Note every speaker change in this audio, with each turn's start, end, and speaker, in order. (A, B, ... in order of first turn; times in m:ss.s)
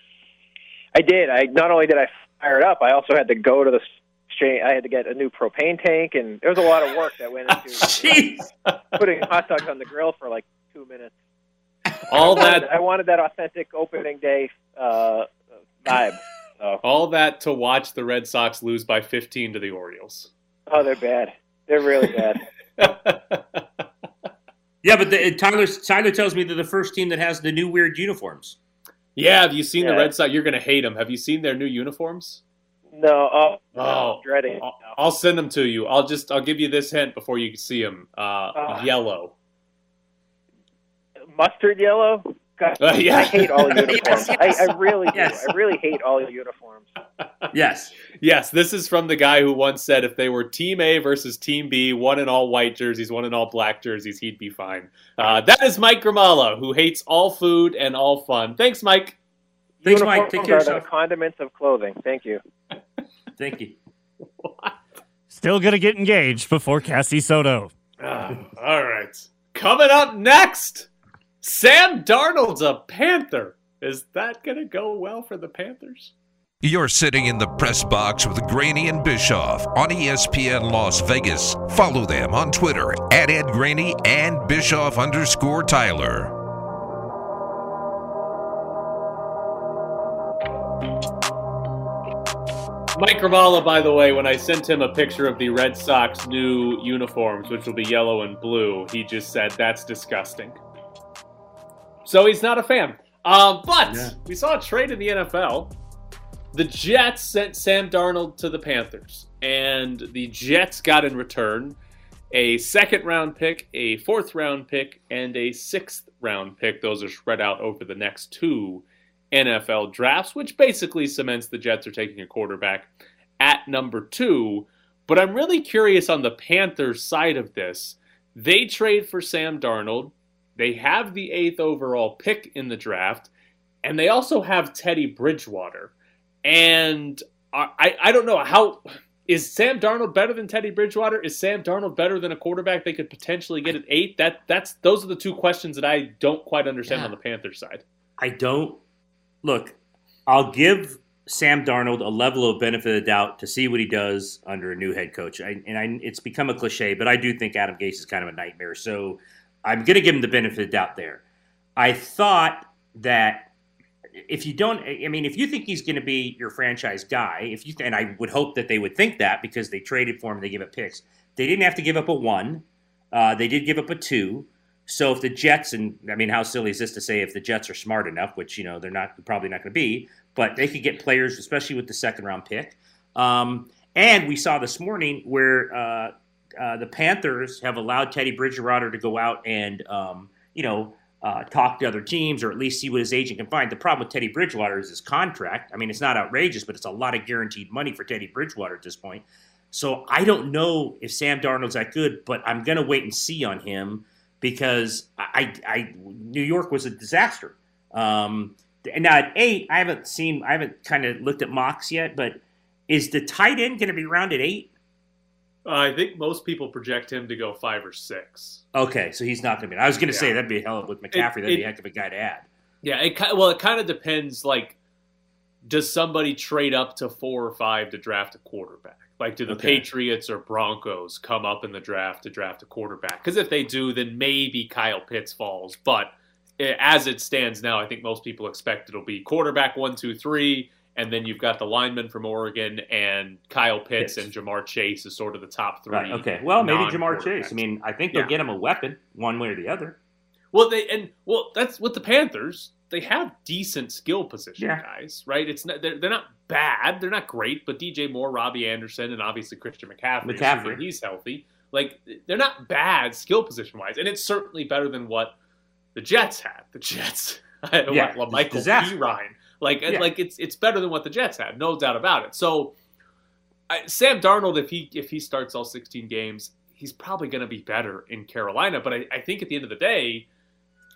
0:01.0-0:08.2 A
0:07.8-0:08.4 B
0:09.0-0:11.1 A
0:12.1-0:12.7 C
0:12.2-0:15.3 A
0:15.8-0:16.8 A
0:16.8-0:20.3 C
0:20.7-0:22.4 A
0:22.8-0:23.6 C
0:24.8-0:28.6 B
0:29.2-0:32.4 C
0:29.8-0:30.1 A
0:32.9-0:34.8 A
0:33.8-0:39.3 C
0:38.6-0:38.9 A
0:41.3-0:46.9 A
0:42.8-0:44.8 C
0:43.9-0:45.6 B
0:47.5-0:47.9 B
0:48.2-0:59.2 C
0:59.8-1:02.4 A
0:59.8-1:00.8 B
1:03.4-1:03.8 B
1:04.2-1:04.8 C
1:05.3-1:07.7 D
1:08.0-1:10.9 C
1:11.4-1:16.1 C
1:16.6-1:26.4 E
1:33.0-1:40.6 C
1:42.0-1:45.7 C
1:43.8-1:44.2 B
1:46.5-1:51.8 C
1:52.3-2:13.3 C
2:13.8-2:15.9 C
2:16.4-2:27.8 C
2:26.9-2:27.1 B
2:28.2-2:28.8 B
2:29.4-2:29.8 B
2:30.3-2:41.2 B
2:41.8-2:43.5 B
2:44.3-3:34.7 B
3:35.6-3:38.6 C
3:38.7-3:42.5 B
3:40.1-3:40.4 C
3:41.1-3:41.6 C
3:42.8-3:44.8 C
3:45.6-4:08.3 C
3:49.5-3:49.8 B
4:04.0-4:04.3 B
4:05.9-4:10.0 B
4:10.5-4:25.3 C
4:14.6-4:14.8 B
4:20.2-4:20.8 B
4:26.0-4:32.7 C
4:27.9-4:29.0 B
4:33.7-4:40.3 C